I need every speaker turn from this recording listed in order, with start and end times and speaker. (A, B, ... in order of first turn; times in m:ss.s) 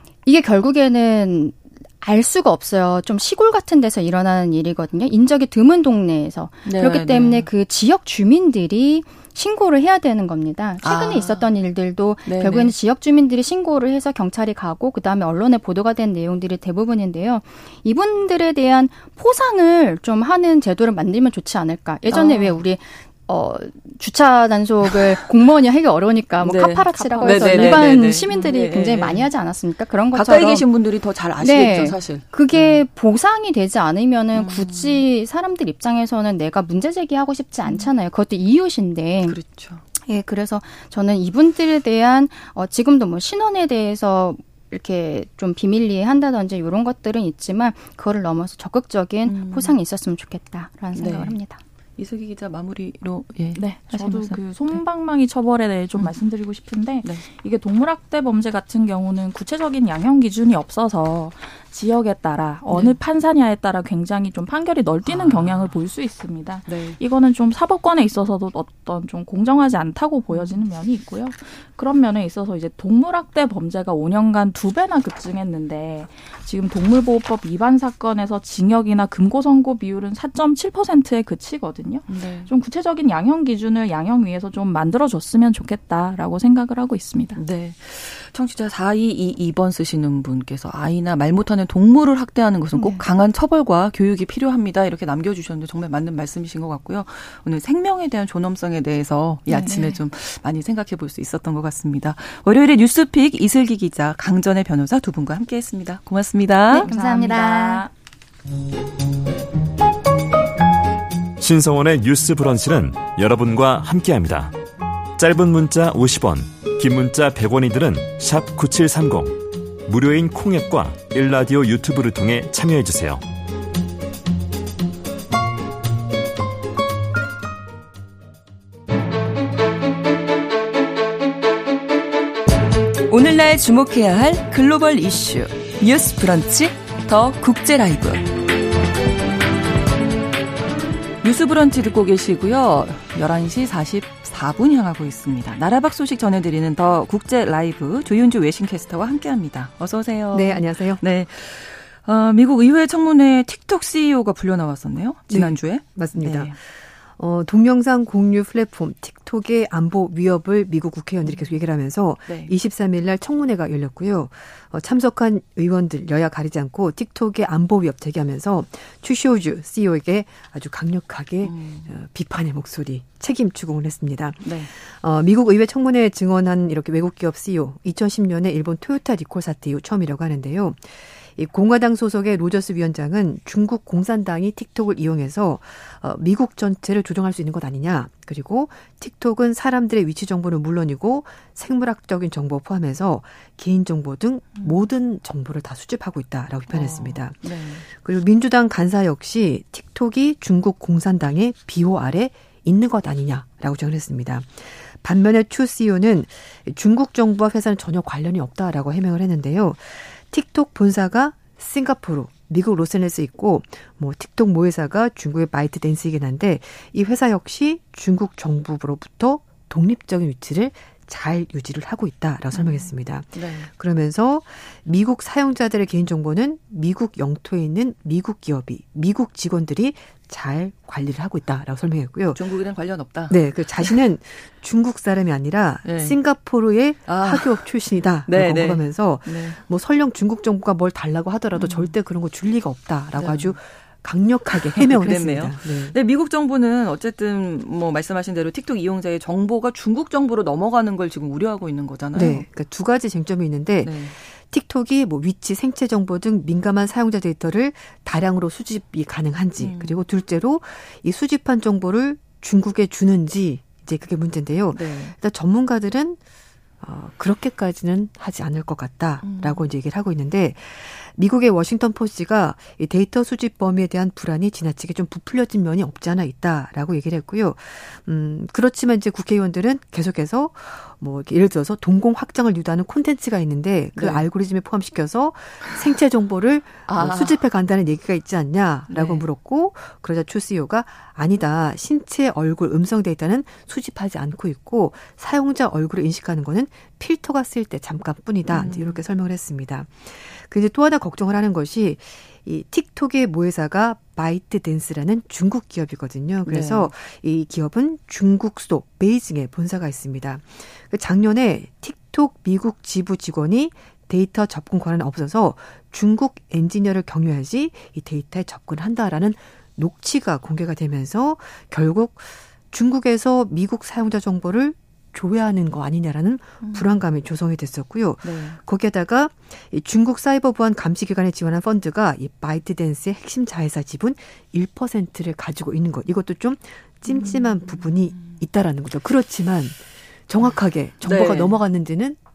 0:00.3-0:30.7 A
0:06.7-0:07.5 B
0:10.8-0:11.4 B
0:12.3-0:12.7 B
0:22.1-0:22.6 B
0:26.4-0:29.3 B
0:30.1-0:32.8 B
0:31.4-0:39.4 A
0:34.3-0:35.0 B
0:39.2-0:39.8 B
0:40.0-0:51.6 A
0:49.2-0:49.8 B
0:50.9-0:51.4 B
0:52.0-0:54.8 B
0:53.6-1:27.4 C
1:02.7-1:03.0 B
1:05.0-1:05.7 B
1:06.7-1:07.0 B
1:10.3-1:10.6 B
1:22.1-1:22.5 B
1:27.4-1:46.9 B
1:32.7-1:33.0 A
1:39.5-1:40.0 A
1:46.7-1:47.9 A
1:46.7-1:47.9 C
1:51.4-1:54.5 D
1:55.2-2:03.2 D
2:13.1-2:18.3 E
2:21.2-2:36.6 B
2:30.3-2:31.0 F
2:35.3-3:52.4 F
2:41.3-2:41.6 B
2:42.3-2:42.5 B
2:51.4-2:51.9 B
2:54.4-2:54.7 B
3:16.7-3:17.9 B
3:42.5-3:43.7 B
3:52.3-3:54.0 B
3:53.3-4:06.0 F
3:55.8-3:56.2 B
3:57.0-3:59.6 B
4:01.6-4:01.9 B
4:03.2-4:03.6 B
4:04.5-4:12.4 B
4:12.1-4:26.2 F
4:13.8-4:14.1 B
4:19.6-4:20.0 B
4:24.7-4:25.2 B
4:26.8-5:42.2 F
4:29.2-4:29.7 B
4:44.0-4:44.2 B
4:46.9-4:47.4 B
4:48.9-4:49.2 B
4:58.5-4:59.0 B
5:06.4-5:06.9 B
5:26.6-5:27.0 B
5:28.2-5:28.6 B
5:37.0-5:38.4 B
5:41.0-5:41.6 B